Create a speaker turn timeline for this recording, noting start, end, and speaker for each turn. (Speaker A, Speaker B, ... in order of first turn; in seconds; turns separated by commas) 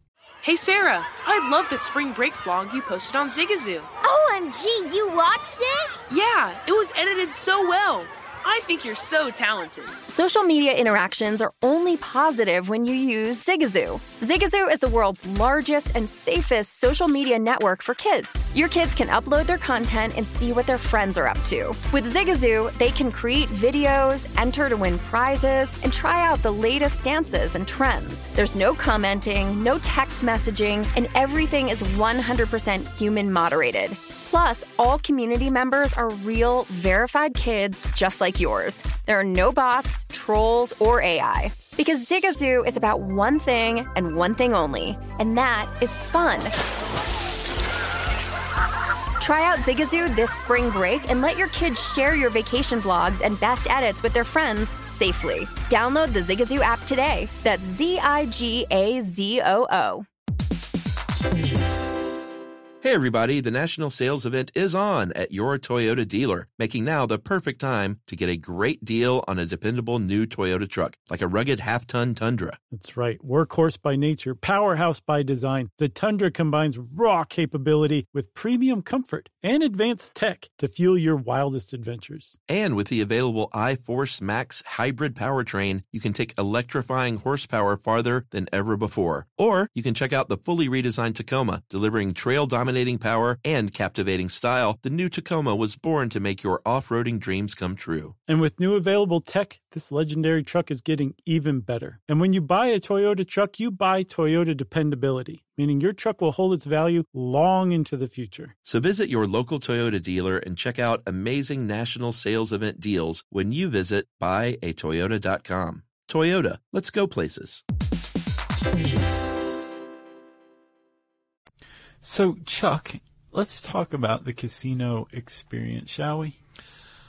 Speaker A: 0.4-3.9, Speaker B: 4.0-6.0, Speaker A: 6.1-10.0, Speaker C: 10.1-46.5, Speaker C: 49.2-60.0, Speaker D: 62.8-72.6, Speaker E: 72.7-82.3, Speaker D: 82.5-98.1, Speaker E: 98.3-108.5, Speaker D: 108.6-117.6, Speaker E: 122.0-126.4